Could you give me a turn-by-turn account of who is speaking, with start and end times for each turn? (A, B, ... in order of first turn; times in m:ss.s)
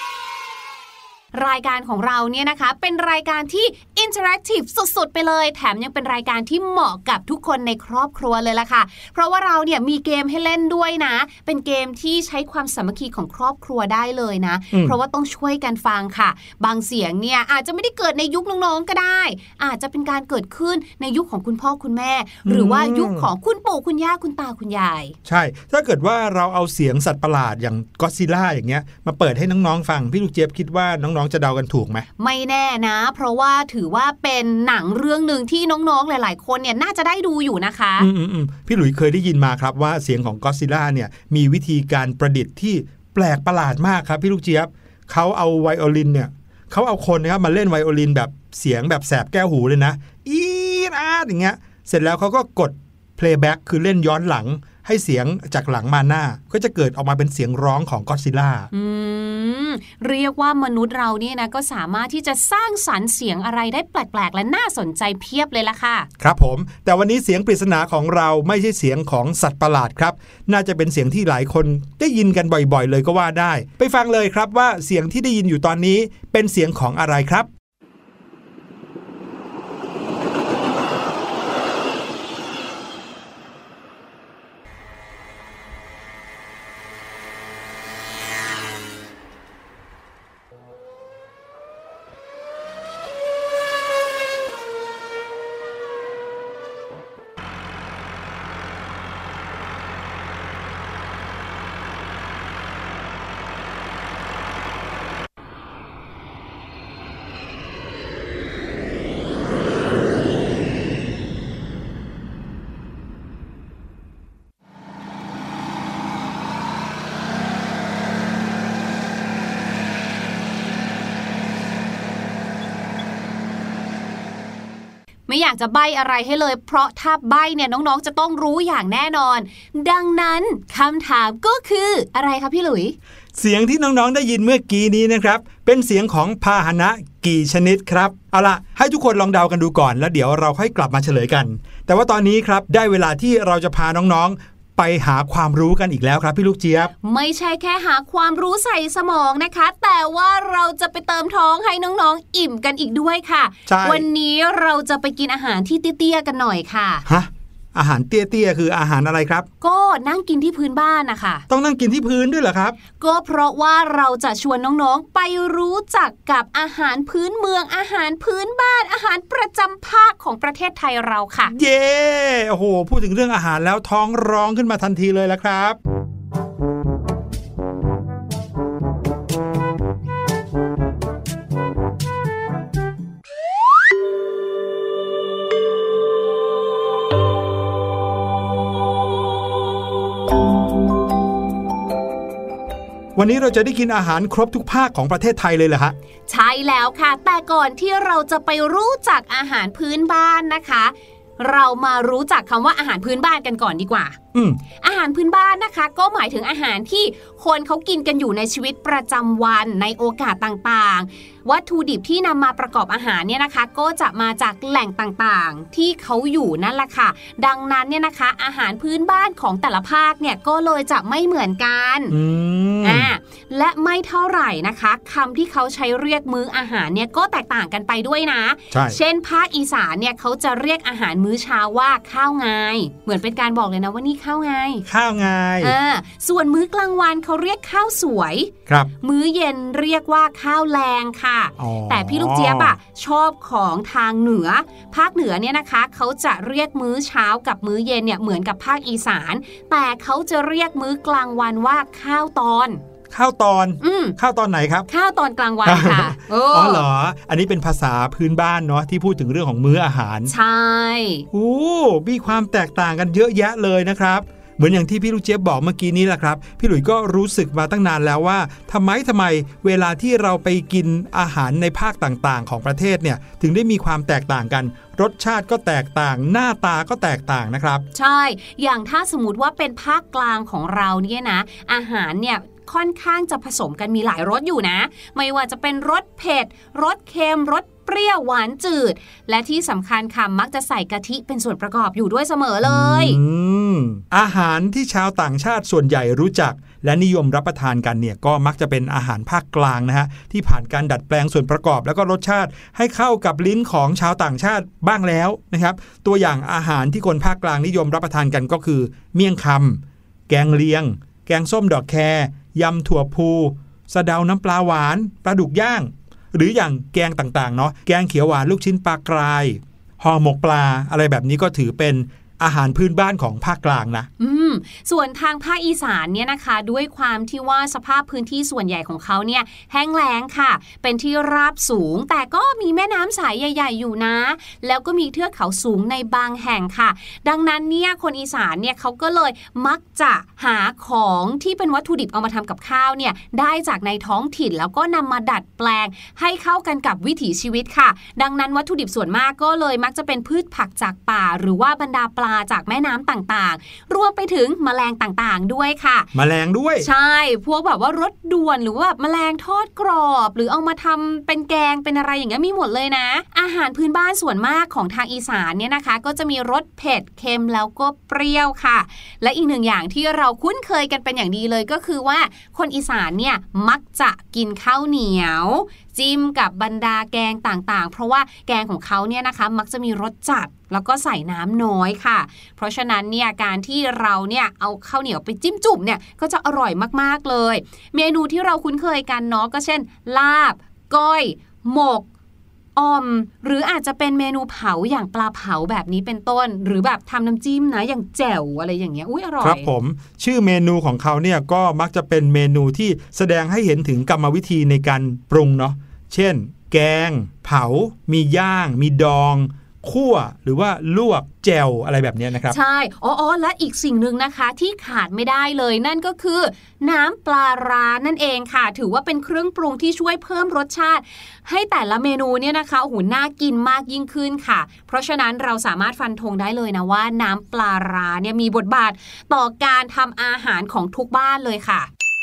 0:01.3-0:25.2 A
0:22.4-0:23.3 B
0:25.2-0:32.1 B
0:32.2-0:38.1 A
0:38.0-0:58.7 B
0:58.7-1:06.1 A
1:06.2-1:17.5 B
2:05.3-2:13.0 A
2:13.4-2:26.9 B
2:27.0-2:37.0 A
2:33.7-2:34.1 B
2:37.1-2:39.5 B
2:39.6-2:41.4 A
2:41.5-2:42.8 B
2:43.0-2:51.5 A
2:51.5-2:55.8 B
3:13.2-3:16.0 B
3:16.3-3:24.2 A
3:24.3-3:24.6 B
3:24.8-3:42.2 A
3:42.1-3:43.1 B
3:42.8-3:54.9 A
3:48.7-3:49.0 B
3:54.9-3:55.8 B
3:55.6-4:12.8 A
4:01.6-4:02.8 B
4:13.1-4:14.9 B
4:13.8-4:14.2 A
4:14.9-4:16.8 A
4:15.6-4:20.3 B
4:20.3-4:21.3 A
4:21.3-4:37.9 B
4:37.9-4:53.2 A
4:52.6-5:24.1 B
5:24.2-5:56.1 A
5:56.1-5:56.9 B
5:56.8-6:32.1 A
6:32.8-6:39.7 A
6:39.4-6:52.6 B
6:52.5-7:11.9 A